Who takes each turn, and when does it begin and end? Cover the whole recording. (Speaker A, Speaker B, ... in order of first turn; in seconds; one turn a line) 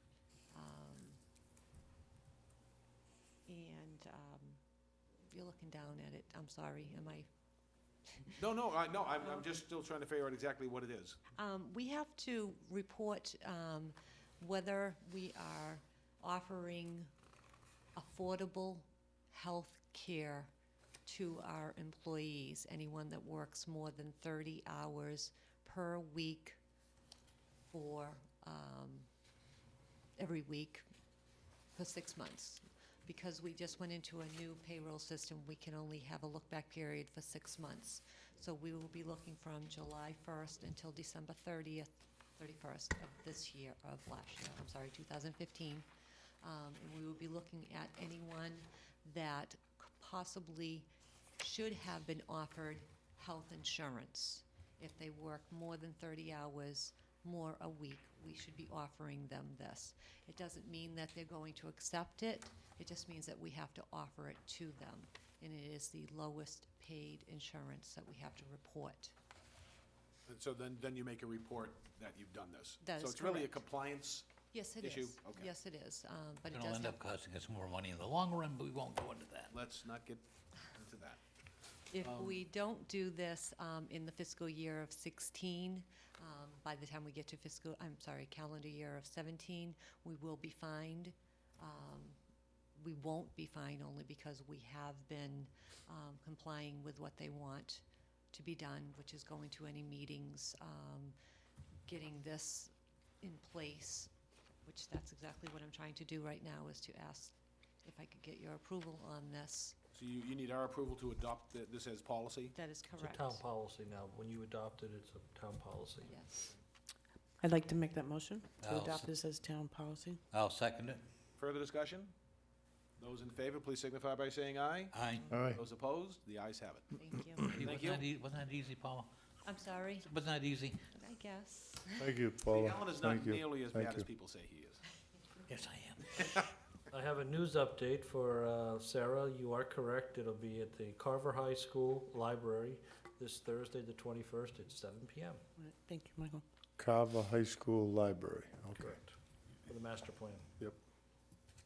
Speaker A: 0.5-1.2
Speaker A: 3.5-4.6
Speaker A: 5.3-7.3
Speaker B: 8.4-11.2
Speaker A: 11.3-17.1
Speaker A: 18.0-20.5
Speaker A: 21.1-26.6
Speaker A: 27.7-29.1
Speaker A: 30.2-30.9
Speaker A: 31.8-45.9
Speaker A: 46.4-50.9
Speaker A: 51.4-69.2
Speaker B: 70.3-74.3
Speaker A: 72.8-73.6
Speaker A: 74.5-77.0
Speaker B: 74.8-75.5
Speaker C: 76.5-79.5
Speaker B: 79.5-81.2
Speaker A: 81.9-92.2
Speaker B: 82.0-82.4
Speaker A: 92.8-101.2
Speaker A: 101.9-102.7
Speaker A: 103.2-104.1
Speaker A: 104.7-109.8
Speaker B: 109.9-112.5
Speaker A: 112.5-113.4
Speaker D: 113.0-116.1
Speaker A: 116.0-116.5
Speaker E: 117.4-120.2
Speaker C: 118.6-119.1
Speaker C: 120.3-121.0
Speaker B: 121.4-122.1
Speaker B: 123.0-126.9
Speaker C: 124.9-125.3
Speaker F: 125.3-125.6
Speaker A: 127.0-128.0
Speaker C: 127.5-129.1
Speaker B: 127.6-128.0
Speaker A: 129.4-130.1
Speaker C: 130.0-130.8
Speaker A: 130.9-132.1
Speaker F: 132.0-134.1
Speaker B: 132.5-134.8
Speaker C: 135.5-136.5
Speaker D: 136.9-145.4
Speaker E: 145.6-146.4
Speaker F: 146.8-149.0
Speaker D: 148.8-149.1
Speaker D: 149.7-150.4